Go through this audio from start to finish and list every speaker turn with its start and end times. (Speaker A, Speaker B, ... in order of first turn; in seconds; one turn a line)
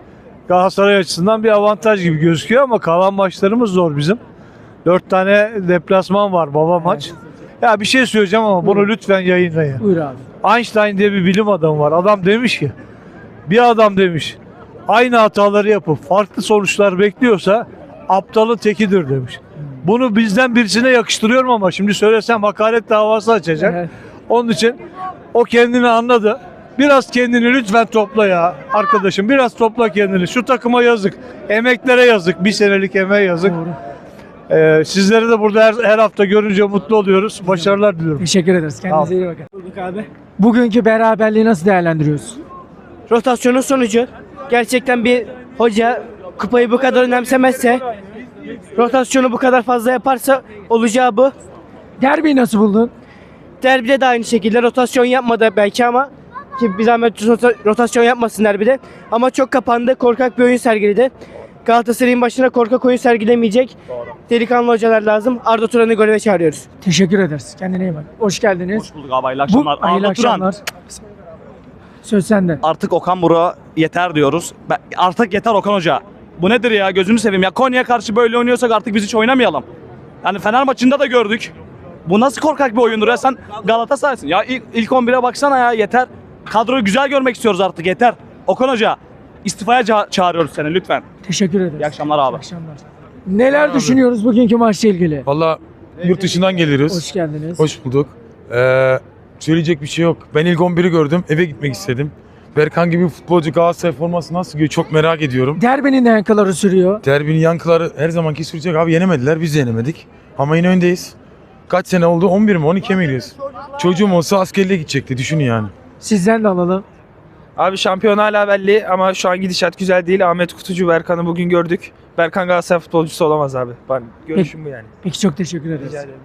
Speaker A: 0.5-4.2
Speaker A: 4.8-9.8
Speaker B: 8.6-8.9
Speaker B: 9.8-10.2
Speaker A: 10.4-12.7
Speaker A: 13.5-14.4
Speaker A: 14.9-24.8
Speaker A: 25.3-33.6
Speaker B: 33.4-33.7
Speaker A: 34.5-38.2
Speaker B: 37.5-42.4
Speaker C: 43.1-47.8
Speaker C: 48.7-51.3
Speaker B: 52.0-52.9
Speaker C: 53.6-61.1
Speaker C: 61.6-63.7
Speaker C: 64.3-66.6
Speaker B: 66.8-68.8
Speaker D: 68.7-70.5
Speaker B: 69.5-70.6
Speaker B: 72.0-72.6
Speaker D: 72.6-79.7
Speaker D: 80.2-81.5
Speaker D: 82.0-91.0
Speaker B: 91.2-95.3
Speaker D: 91.8-92.4
Speaker E: 95.2-97.0
Speaker B: 96.9-97.6
Speaker E: 97.6-105.6
Speaker B: 105.5-107.0
Speaker E: 107.0-111.1
Speaker E: 111.7-115.7
Speaker B: 116.0-116.8
Speaker F: 117.6-124.9
Speaker B: 125.0-126.0
Speaker F: 125.8-126.0